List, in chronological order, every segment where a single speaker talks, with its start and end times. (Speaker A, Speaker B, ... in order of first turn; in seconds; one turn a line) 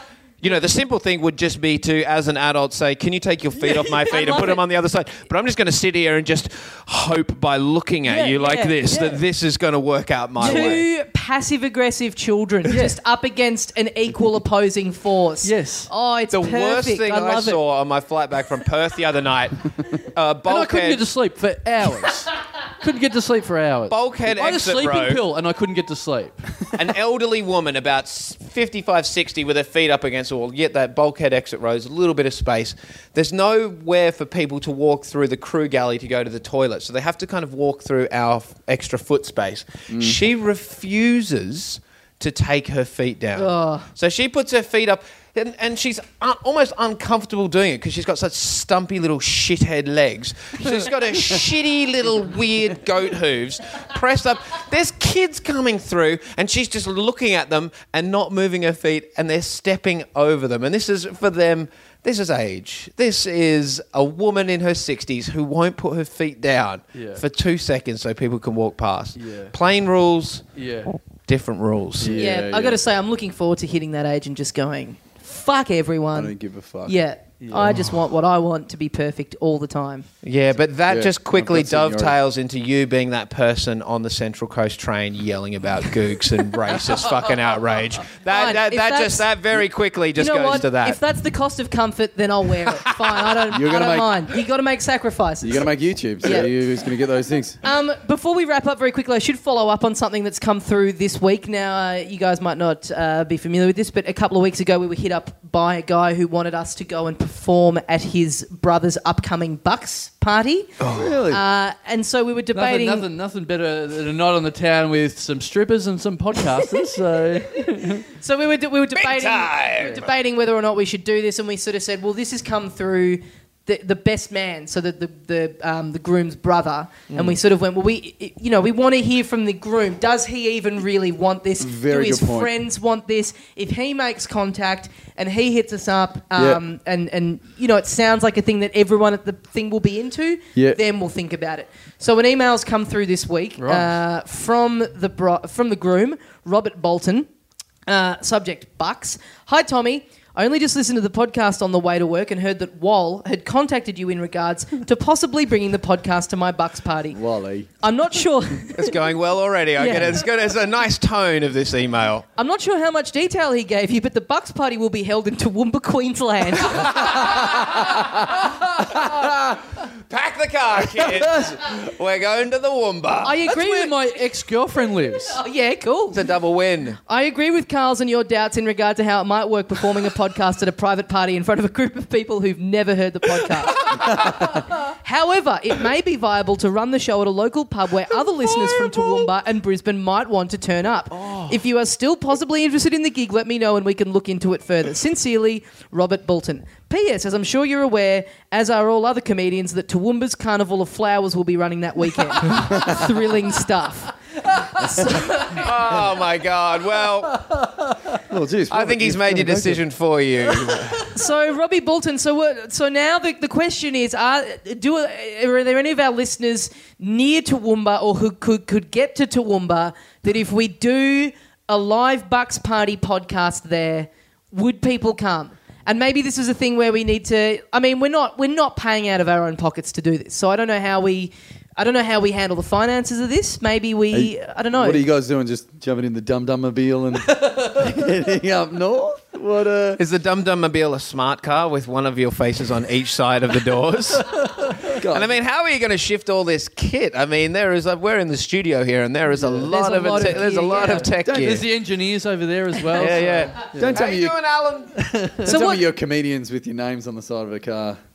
Speaker A: 0.4-10.8
Speaker B: 4.1-4.6
Speaker B: 8.1-9.2
Speaker B: 10.4-17.6
Speaker C: 12.7-12.9
Speaker C: 15.4-15.9
Speaker A: 16.3-21.0
Speaker C: 20.4-26.7
Speaker A: 23.9-25.2
Speaker A: 26.7-70.5
Speaker D: 39.9-40.2
Speaker B: 43.3-43.9
Speaker C: 66.9-67.2
Speaker C: 69.2-69.5
Speaker C: 70.5-71.0
Speaker A: 71.3-72.2
Speaker D: 72.0-72.8
Speaker B: 72.1-76.3
Speaker D: 76.1-77.0
Speaker B: 76.8-80.0
Speaker C: 77.4-77.7
Speaker A: 80.2-91.0
Speaker D: 80.9-82.1
Speaker B: 88.3-89.3
Speaker B: 90.2-95.7
Speaker A: 92.8-93.2
Speaker D: 93.5-94.3
Speaker D: 95.4-97.6
Speaker B: 96.2-96.5
Speaker B: 97.6-113.0
Speaker A: 110.8-111.2
Speaker D: 110.9-111.4
Speaker C: 112.5-118.0
Speaker B: 118.1-147.3
Speaker A: 118.9-120.1
Speaker A: 127.1-127.4
Speaker D: 131.6-132.5
Speaker D: 136.3-136.6
Speaker D: 140.5-140.8
Speaker C: 143.6-143.9
Speaker B: 147.9-157.2
Speaker D: 157.1-157.7
Speaker B: 157.8-158.9
Speaker A: 158.7-162.2
Speaker B: 159.8-160.2
Speaker B: 162.3-167.3
Speaker A: 166.7-168.3
Speaker D: 167.4-168.0
Speaker A: 168.8-173.4
Speaker D: 171.0-171.5
Speaker B: 173.2-173.9
Speaker C: 173.5-175.4
Speaker B: 175.3-176.2
Speaker A: 176.1-177.0
Speaker B: 177.1-204.1
Speaker C: 191.1-191.5
Speaker D: 202.5-203.1
Speaker C: 204.4-205.7
Speaker B: 204.8-205.5
Speaker A: 205.5-207.4
Speaker C: 207.3-208.2
Speaker D: 208.3-209.8
Speaker A: 208.7-211.1
Speaker B: 211.1-235.0
Speaker D: 234.1-240.0
Speaker C: 237.3-237.9
Speaker A: 240.0-244.4
Speaker C: 244.2-245.0
Speaker D: 245.0-245.4
Speaker A: 245.0-251.7
Speaker B: 249.6-251.1
Speaker C: 250.2-254.0
Speaker D: 251.2-251.6
Speaker A: 252.9-255.0
Speaker D: 253.7-254.3
Speaker C: 255.0-255.4
Speaker D: 255.4-258.0
Speaker B: 255.4-255.8